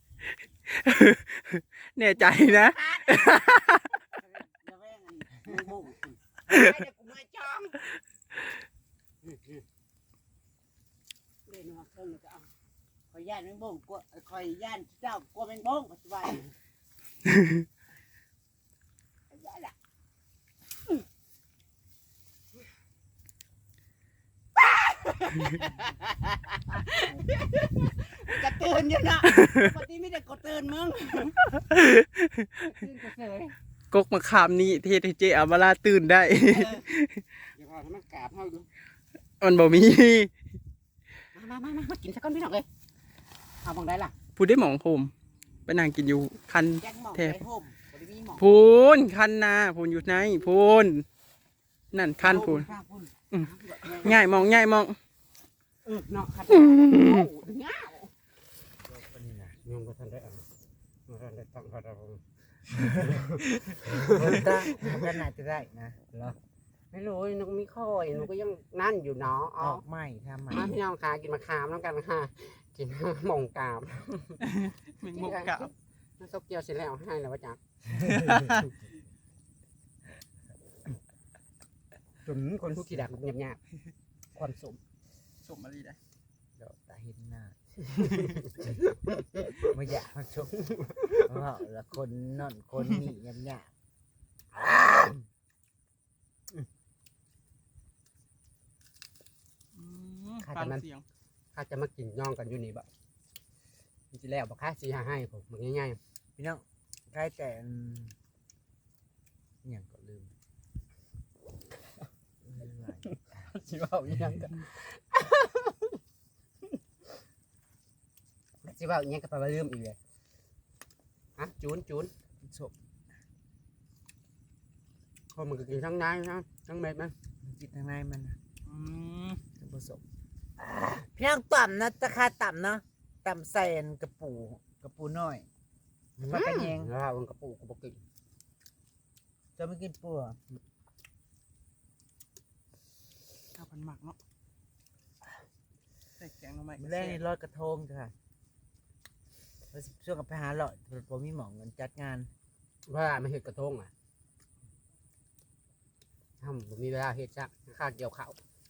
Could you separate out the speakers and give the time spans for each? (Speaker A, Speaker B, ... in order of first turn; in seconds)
Speaker A: 0.7-4.0, 31.7-32.5, 33.9-37.2, 39.4-40.3, 44.4-45.1, 45.6-47.4, 48.4-51.0, 51.9-52.7, 53.3-55.0, 56.8-57.2, 74.4-75.7, 85.4-86.0, 99.7-101.0, 128.7-129.4, 143.5-144.2, 146.2-147.2
Speaker B: 2.2-3.3, 6.5-7.8, 9.2-9.6, 11.5-12.5, 19.3-19.7, 24.6-31.6, 32.6-33.5, 37.5-38.7, 41.3-42.6, 43.6-44.1, 53.4-54.2, 55.8-58.1, 59.6-60.4, 61.1-65.1, 66.9-69.8, 70.5-74.4, 75.0-77.6, 78.2-78.6, 82.2-83.6, 84.3-84.8, 87.9-89.7, 90.6-91.4, 94.5-95.2, 100.4-100.8, 101.5-102.9, 104.1-106.0, 113.0-116.0, 118.6-120.0, 121.4-122.1, 125.3-127.1, 136.3-138.0, 152.8-153.9, 156.4-158.4
Speaker C: 4.4-6.2, 13.1-16.5, 46.8-48.5, 52.0-53.1, 53.8-54.4, 58.9-59.6, 64.0-66.0, 69.6-70.8, 78.0-78.4, 86.6-88.3, 89.6-90.6, 91.2-93.7, 106.4-108.1, 109.6-110.3, 112.4-113.5, 122.4-122.7, 127.4-128.4, 129.6-130.0, 130.6-135.5, 136.2-136.9, 139.6-140.4, 146.8-148.1, 149.7-152.3